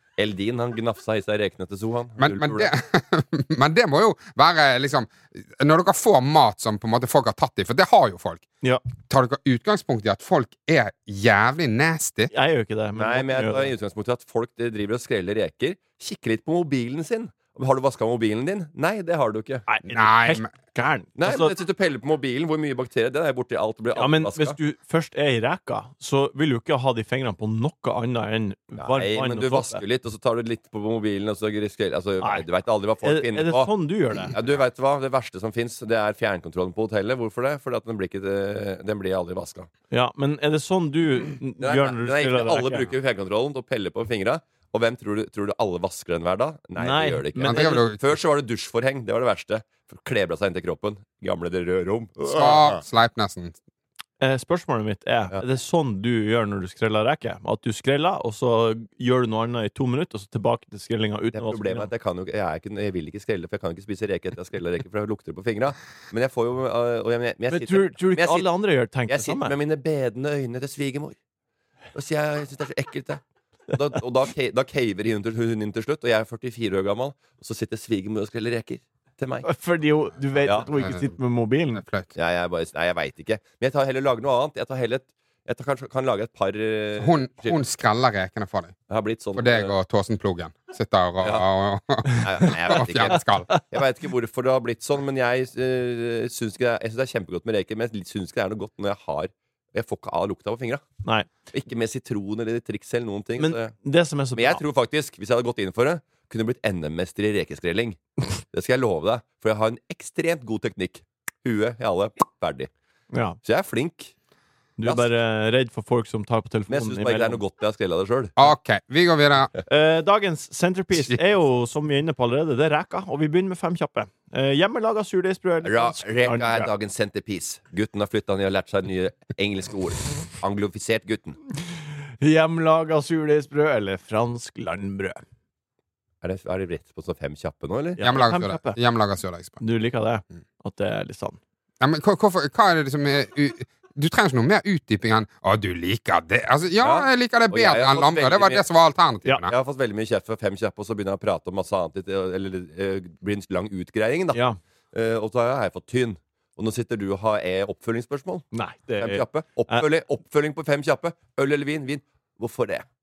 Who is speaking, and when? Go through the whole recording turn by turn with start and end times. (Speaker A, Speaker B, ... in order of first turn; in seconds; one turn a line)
Speaker A: 0.2-2.7
Speaker B: 2.2-8.5
Speaker B: 9.1-12.3
Speaker C: 12.3-13.7
Speaker A: 13.0-19.7
Speaker C: 19.7-21.5
Speaker B: 19.9-20.5
Speaker A: 21.2-24.6
Speaker C: 23.9-29.8
Speaker A: 28.8-33.7
Speaker C: 32.2-32.5
Speaker C: 33.0-34.3
Speaker A: 34.3-39.7
Speaker C: 39.9-42.9
Speaker A: 41.6-52.8
Speaker C: 46.8-47.8
Speaker B: 47.4-48.0
Speaker B: 52.3-53.6
Speaker C: 54.2-61.9
Speaker A: 61.3-68.5
Speaker C: 67.5-69.5
Speaker A: 69.1-71.2
Speaker A: 71.9-73.2
Speaker A: 73.7-79.5
Speaker C: 79.4-81.8
Speaker B: 80.7-81.1
Speaker B: 81.8-82.1
Speaker A: 82.2-87.6
Speaker B: 87.0-88.8
Speaker A: 88.9-89.8
Speaker B: 89.4-93.5
Speaker A: 92.2-100.8
Speaker C: 101.0-101.3
Speaker A: 101.5-103.8
Speaker C: 103.4-104.6
Speaker A: 104.3-108.0
Speaker A: 108.5-112.7
Speaker C: 113.1-113.4
Speaker A: 113.4-114.1
Speaker C: 114.8-117.4
Speaker A: 116.7-118.4
Speaker B: 118.4-119.5
Speaker C: 119.7-126.7
Speaker A: 125.6-131.4
Speaker C: 132.2-135.2
Speaker A: 136.2-138.0
Speaker C: 138.0-138.8
Speaker B: 138.0-139.6
Speaker C: 139.6-141.4
Speaker B: 141.8-149.5
Speaker A: 146.8-148.7
Speaker A: 149.5-158.5
Speaker C: 154.3-154.6
Speaker C: 158.5-159.9
Speaker A: 159.0-162.9